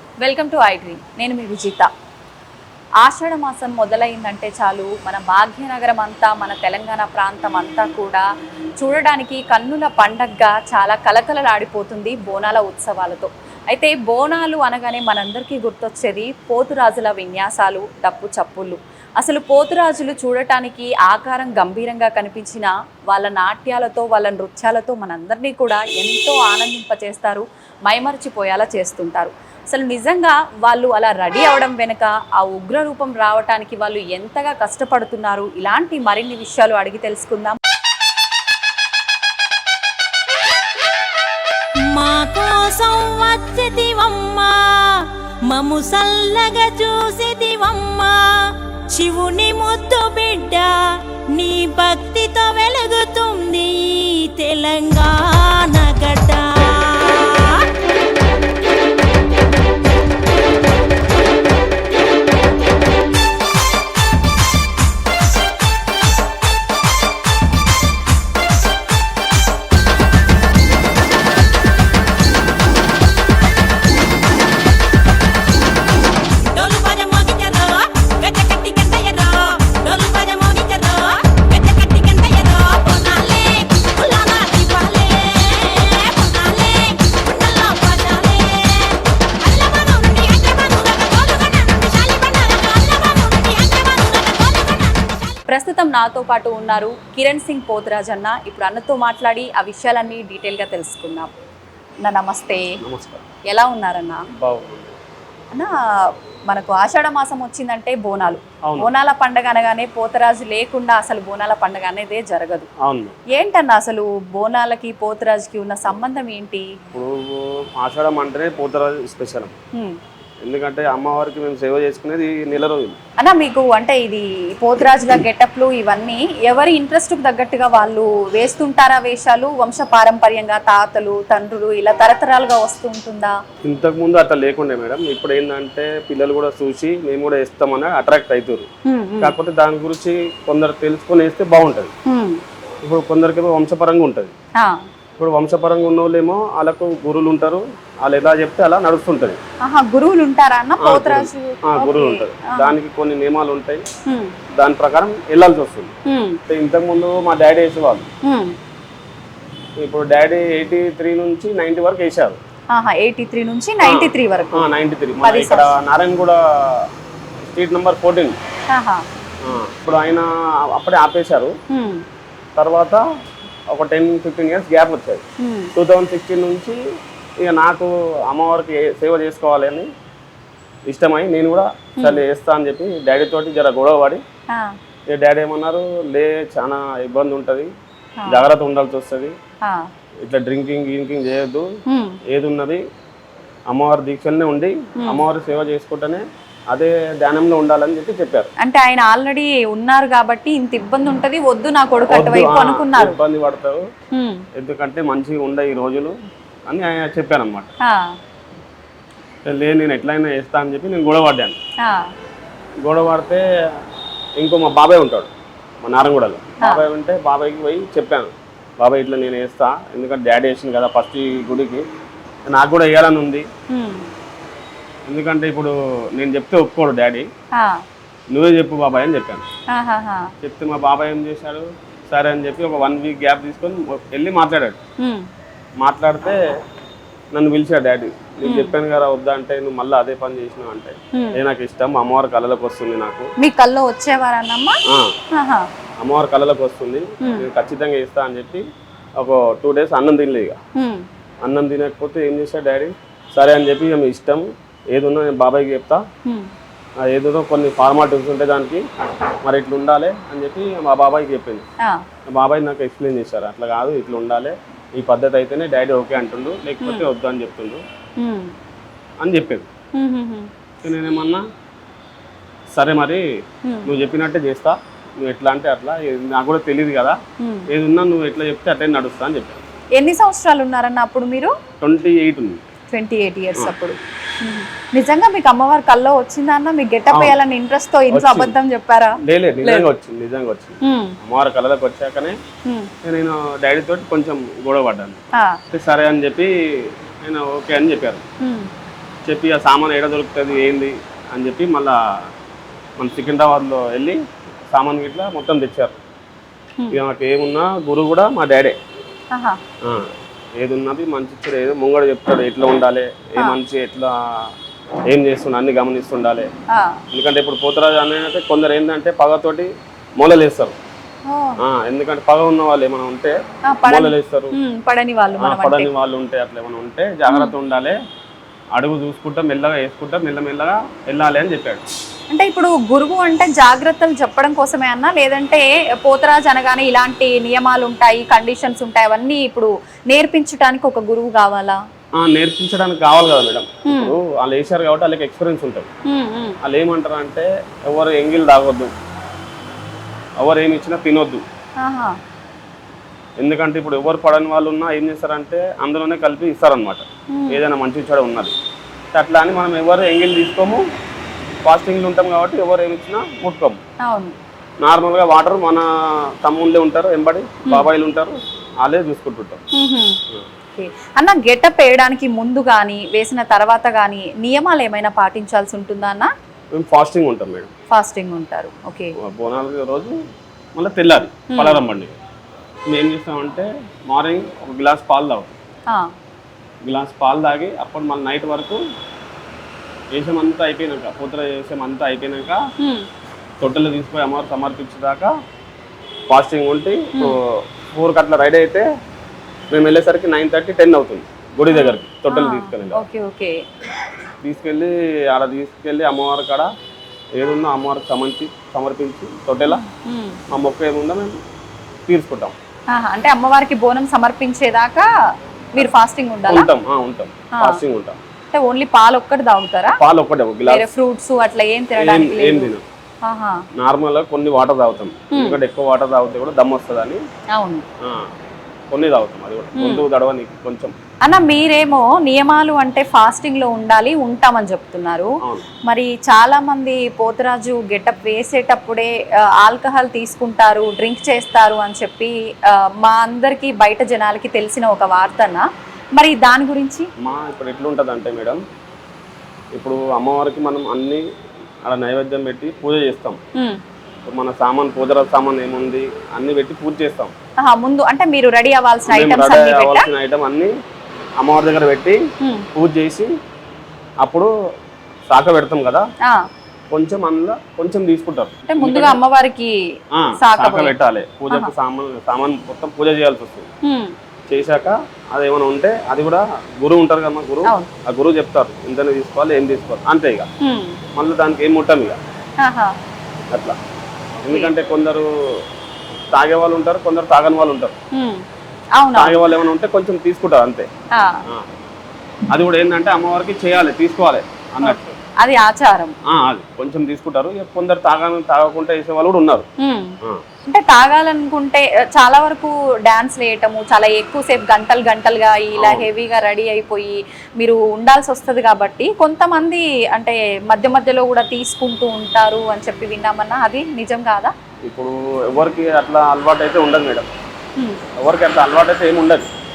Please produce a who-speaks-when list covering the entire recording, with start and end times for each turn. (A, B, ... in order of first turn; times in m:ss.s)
0:00.2-0:01.9 A
0:03.0-0:08.2 A
0:08.8-0:37.6 A
0:41.8-0:57.6 B
1:16.4-1:35.4 B
1:35.5-1:41.3 A
1:42.0-1:42.7 A
1:42.8-1:43.2 C
1:43.5-1:44.2 A
1:44.4-1:44.9 C
1:46.5-1:52.7 A
1:48.6-1:48.9 C
1:52.8-1:53.2 C
1:53.3-1:56.7 A
1:56.9-1:59.6 C
2:00.4-2:03.0 C
2:03.2-2:13.4 A
2:13.6-2:18.7 C
2:18.8-2:19.4 A
2:19.2-2:21.9 C
2:22.1-2:22.4 A
2:22.8-2:24.3 C
2:24.6-2:24.8 A
2:25.2-2:29.4 C
2:29.6-2:32.7 A
2:30.8-2:33.8 C
2:34.1-2:34.3 A
2:34.5-2:35.9 C
2:36.0-2:36.4 A
2:36.5-2:38.1 C
2:38.2-2:38.6 A
2:39.8-2:42.4 C
2:42.7-2:44.6 A
2:43.8-2:46.9 C
2:45.2-2:45.7 A
2:47.4-2:48.4 C
2:48.7-2:49.0 A
2:49.4-2:51.5 C
2:51.7-2:52.0 A
2:52.6-2:53.0 C
2:53.7-2:55.2 C
2:55.4-2:55.7 A
2:55.7-2:56.8 C
2:57.4-2:59.9 C
3:00.9-3:04.2 C
3:04.5-3:04.7 A
3:05.1-3:07.7 C
3:08.3-3:09.4 C
3:10.2-3:11.7 C
3:11.9-3:12.2 A
3:12.3-3:12.8 C
3:13.7-3:18.5 C
3:18.6-3:23.2 A
3:22.1-3:23.8 C
3:24.1-3:24.4 A
3:24.5-3:26.1 C
3:26.7-3:27.7 C
3:27.8-3:28.1 A
3:29.4-3:31.6 C
3:31.8-3:32.1 A
3:32.8-3:33.4 C
3:34.4-3:35.3 C
3:35.8-3:41.8 C
3:42.5-3:43.4 C
3:43.7-3:44.1 A
3:45.1-3:47.3 C
3:47.5-3:47.8 A
3:48.3-3:49.4 C
3:49.7-3:50.3 A
3:50.4-3:54.8 C
3:55.0-3:55.3 A
3:55.8-3:56.4 C
3:57.3-4:03.3 C
3:58.4-3:58.7 A
4:01.1-4:01.4 A
4:03.4-4:04.8 A
4:04.8-4:05.1 C
4:05.3-4:05.7 A
4:06.0-4:08.6 C
4:07.2-4:07.4 A
4:09.2-4:10.6 C
4:10.8-4:11.0 A
4:11.4-4:16.0 C
4:17.0-4:18.8 C
4:19.4-4:21.6 C
4:22.3-4:27.8 C
4:26.8-4:27.1 A
4:28.2-4:28.5 A
4:29.2-4:29.7 C
4:29.9-4:30.5 A
4:30.8-4:31.4 C
4:32.7-4:33.2 C
4:33.6-4:33.9 A
4:33.8-4:37.2 C
4:37.4-4:37.7 A
4:37.7-4:39.6 C
4:40.0-4:41.5 A
4:41.8-4:42.6 C
4:42.9-4:49.9 A
4:47.1-4:47.4 C
4:48.1-4:48.6 C
4:49.2-4:52.4 C
4:50.8-4:51.2 A
4:52.6-4:52.9 A
4:53.0-4:55.2 C
4:55.7-4:58.2 C
4:58.4-4:58.7 A
4:59.2-5:02.3 C
5:03.0-5:04.2 C
5:04.7-5:06.0 C
5:06.9-5:08.8 C
5:09.3-5:09.6 A
5:09.8-5:14.5 C
5:15.0-5:16.5 C
5:16.7-5:17.0 A
5:17.1-5:20.8 C
5:21.3-5:21.6 A
5:21.6-5:24.6 C
5:23.7-5:25.9 A
5:25.4-5:28.0 C
5:27.3-5:27.5 A
5:28.7-5:31.8 C
5:32.3-5:41.8 A
5:42.2-5:45.9 C
5:43.8-5:44.2 A
5:46.1-5:46.6 A
5:46.6-5:48.9 C
5:50.4-5:51.4 C
5:51.8-5:52.2 A
5:53.4-5:58.5 C
5:57.3-5:57.6 A
5:59.1-6:00.8 C
6:01.6-6:03.8 C
6:04.0-6:04.3 A
6:04.8-6:09.6 C
6:09.7-6:10.2 A
6:10.8-6:16.3 A
6:16.7-6:17.7 C
6:17.9-6:19.2 A
6:19.2-6:20.1 C
6:20.7-6:22.2 C
6:21.5-6:21.8 A
6:22.9-6:25.5 C
6:26.8-6:28.8 C
6:30.1-6:32.6 C
6:32.8-6:33.1 A
6:33.6-6:35.3 C
6:36.3-6:38.8 C
6:37.1-6:37.4 A
6:39.7-6:43.0 C
6:41.7-6:43.6 A
6:44.4-6:46.7 C
6:47.3-6:49.8 C
6:49.7-6:50.4 A
6:50.5-6:51.3 C
6:52.1-6:52.5 C
6:52.9-6:55.1 A
6:55.7-6:56.7 A
6:56.4-6:58.2 C
6:57.5-6:57.8 A
6:58.5-7:00.0 A
7:00.0-7:00.9 C
7:00.7-7:02.7 A
7:01.9-7:02.8 C
7:03.2-7:03.6 A
7:03.8-7:07.2 C
7:05.3-7:05.6 A
7:07.5-7:07.8 A
7:08.0-7:08.3 C
7:08.9-7:10.9 C
7:09.8-7:10.0 A
7:11.2-7:15.3 A
7:15.9-7:27.1 A
7:27.2-7:28.6 C
7:29.7-7:31.2 C
7:31.8-7:33.4 C
7:34.2-7:37.3 C
7:37.6-7:40.1 A
7:39.0-7:40.7 C
7:41.4-7:42.2 C
7:42.4-7:42.7 A
7:42.7-7:43.3 C
7:44.2-7:44.5 C
7:45.3-7:46.1 C
7:46.9-7:49.2 C
7:48.7-7:49.7 A
7:50.1-7:53.7 C
7:50.4-7:50.9 A
7:53.8-7:54.1 A
7:54.5-8:00.5 C
8:00.6-8:01.0 A
8:01.1-8:02.2 C
8:02.6-8:02.9 A
8:03.5-8:03.8 C
8:04.4-8:05.6 C
8:06.3-8:08.0 C
8:08.1-8:08.4 A
8:09.0-8:09.4 A
8:09.1-8:10.9 C
8:11.1-8:11.5 A
8:12.5-8:15.2 C
8:14.8-8:16.2 A
8:16.2-8:19.7 C
8:19.8-8:34.5 A
8:25.8-8:26.1 C
8:34.8-8:37.3 C
8:38.2-8:39.5 C